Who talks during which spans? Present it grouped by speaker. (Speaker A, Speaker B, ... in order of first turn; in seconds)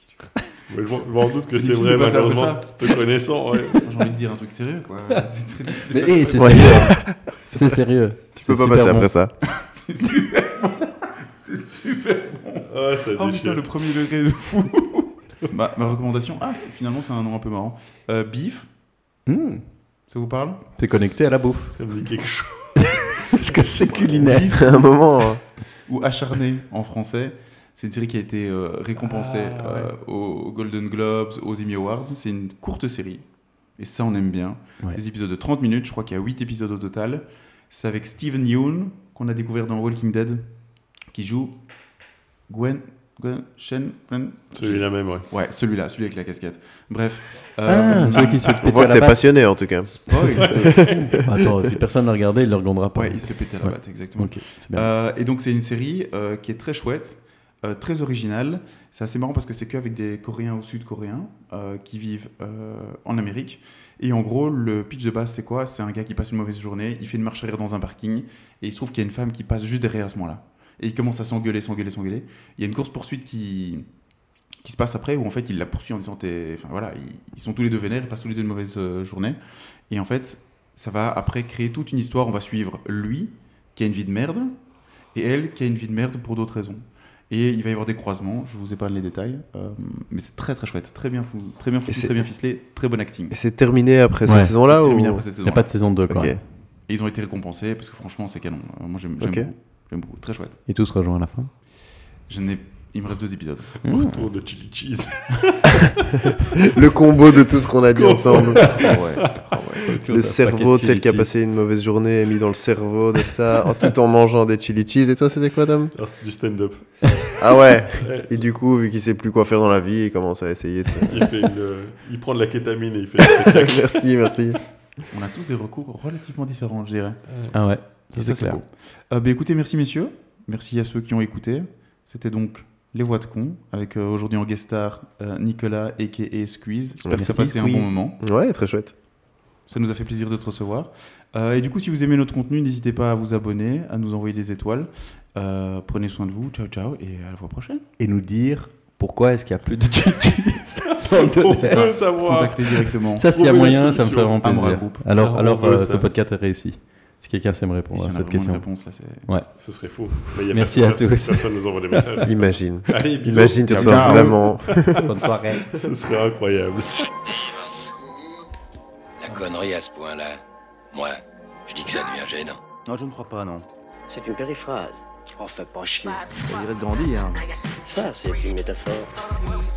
Speaker A: 0.7-3.9, 12.7-13.6, 21.7-23.0, 29.0-29.9, 44.5-45.2, 50.4-50.9, 103.9-106.6, 107.9-109.1, 115.9-117.1, 118.0-118.4, 121.0-124.0, 151.1-154.4, 155.2-156.1, 159.6-164.3, 165.7-167.1
Speaker B: 1.5-2.9, 3.8-7.0, 9.4-18.7, 20.1-20.6, 23.5-25.0, 25.9-40.5, 41.1-41.6, 42.5-49.0, 49.9-51.2, 52.9-73.9, 74.6-79.4, 79.9-84.6, 85.1-93.3, 94.6-95.7, 96.9-100.6, 102.3-103.8, 108.6-109.9, 125.1-127.2, 128.1-138.2, 139.7-147.8, 151.5-153.3, 154.4-155.1, 157.9-159.2, 163.7-164.4
Speaker C: 5.8-9.1, 19.2-19.6, 20.8-21.8, 22.8-24.6, 47.6-49.3, 51.1-54.9, 94.2-94.5, 95.4-96.3, 100.7-101.5, 103.8-104.2, 109.8-111.3, 127.5-128.6, 137.1-137.9, 148.0-151.9, 153.2-158.7, 160.5-161.5, 165.0-165.7
Speaker D: 6.4-7.7, 8.3-9.3, 24.5-25.4, 48.6-51.1, 91.9-92.1, 93.3-95.2, 96.1-96.4, 99.2-99.5, 106.5-109.3, 109.9-115.9, 117.4-121.3, 123.4-124.6, 138.2-138.9, 162.2-165.1
Speaker E: 169.2-170.4, 170.9-172.6
Speaker F: 172.8-173.7, 176.3-177.4
Speaker G: 174.1-176.3, 177.8-179.2